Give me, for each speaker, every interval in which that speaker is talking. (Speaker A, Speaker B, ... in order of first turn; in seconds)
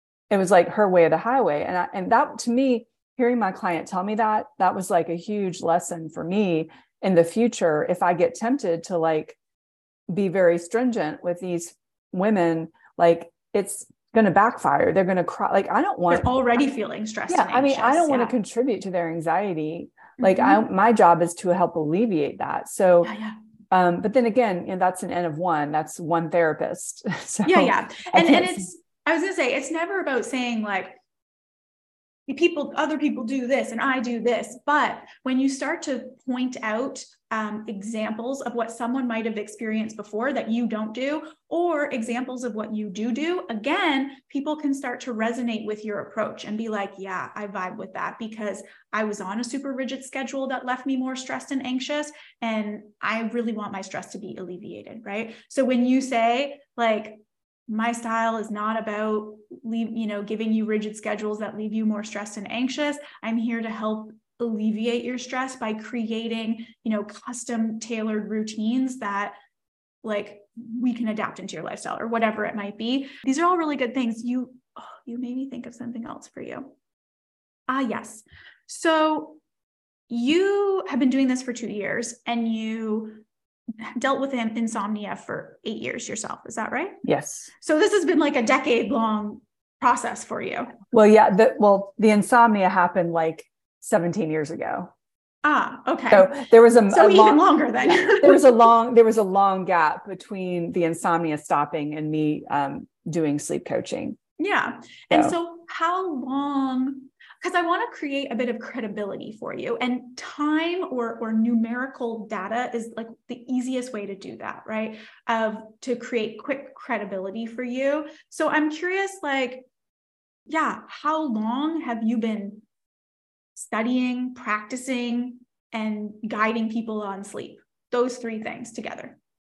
Speaker A: 0.3-9.4, 10.1-16.3, 17.3-23.1, 23.7-28.6, 87.0-87.5, 90.9-94.9, 96.1-104.2, 105.1-105.3
Speaker B: 16.1-18.3, 20.2-20.6, 23.0-23.4, 27.5-31.0, 32.3-69.4, 70.0-76.7, 77.7-79.4, 80.1-83.2, 83.8-87.0, 87.6-90.8, 95.4-98.5, 104.4-119.7, 120.5-122.6, 123.6-129.2